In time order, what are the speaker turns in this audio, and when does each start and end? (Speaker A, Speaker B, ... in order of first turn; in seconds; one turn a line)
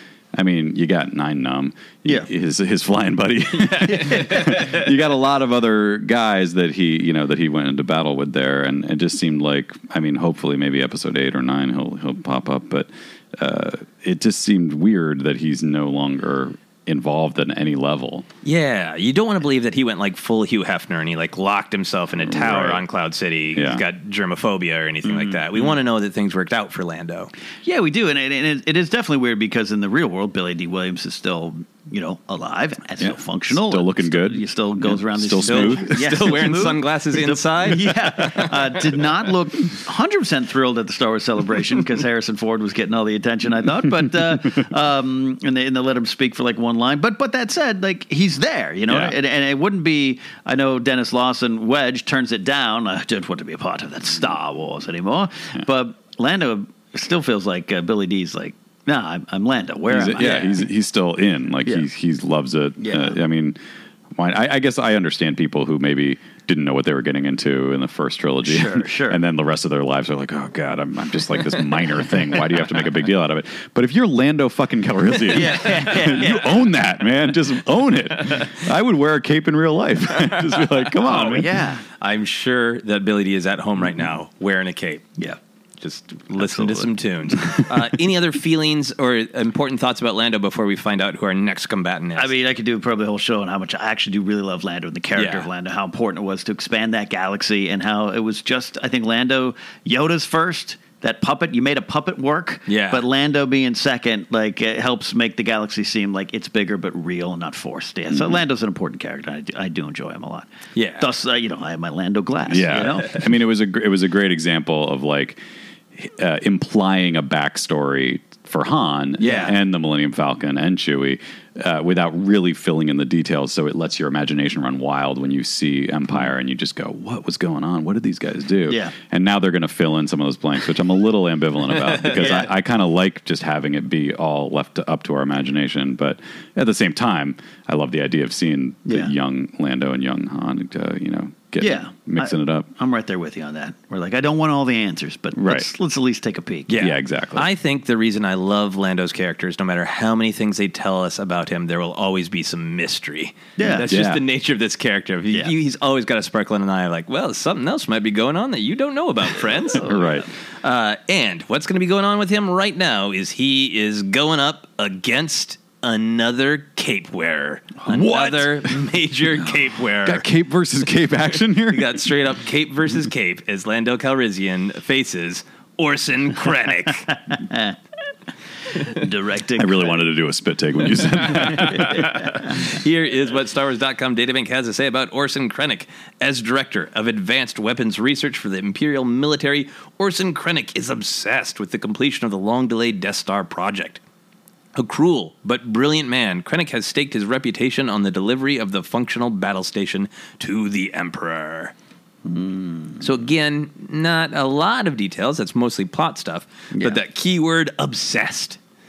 Speaker A: 0.3-18.2
Speaker B: 3.6-4.8
Speaker C: 3.9-4.6
Speaker B: 18.4-27.3
Speaker A: 22.2-22.8
Speaker A: 23.5-23.8
Speaker C: 25.0-25.8
Speaker C: 27.6-60.6
Speaker A: 33.0-36.0
Speaker B: 35.4-39.0
Speaker A: 48.9-49.1
Speaker A: 59.9-63.6
Speaker B: 60.2-60.5
Speaker C: 62.8-63.2
Speaker A: 64.2-81.5
Speaker C: 68.4-69.2
Speaker C: 75.3-76.7
Speaker B: 80.1-85.1
Speaker C: 81.1-81.8
Speaker B: 85.8-92.3
Speaker C: 86.3-87.7
Speaker C: 92.2-113.2
Speaker B: 95.1-95.5
Speaker B: 102.7-103.0
Speaker B: 110.7-111.1
Speaker A: 112.5-115.4
Speaker A: 116.0-142.7
Speaker C: 119.2-119.5
Speaker C: 128.7-128.9
Speaker B: 132.0-132.4
Speaker C: 132.2-132.5
Speaker C: 138.8-139.1
Speaker C: 141.6-146.7
Speaker A: 145.3-145.7
Speaker B: 146.7-159.9
Speaker A: 146.8-147.4
Speaker C: 153.6-153.9
Speaker A: 153.7-154.2
Speaker A: 159.8-160.3
Speaker C: 159.8-160.2
Speaker B: 160.6-170.2
Speaker A: 167.9-168.6
Speaker A: 170.0-172.1
Speaker B: 171.7-177.1
Speaker C: 177.3-177.8
Speaker C: 178.8-180.0
Speaker A: 179.5-182.3
Speaker B: 181.7-194.0
Speaker C: 181.8-182.2
Speaker B: 194.7-201.7
Speaker C: 202.2-203.0
Speaker B: 203.0-208.6
Speaker C: 206.7-207.0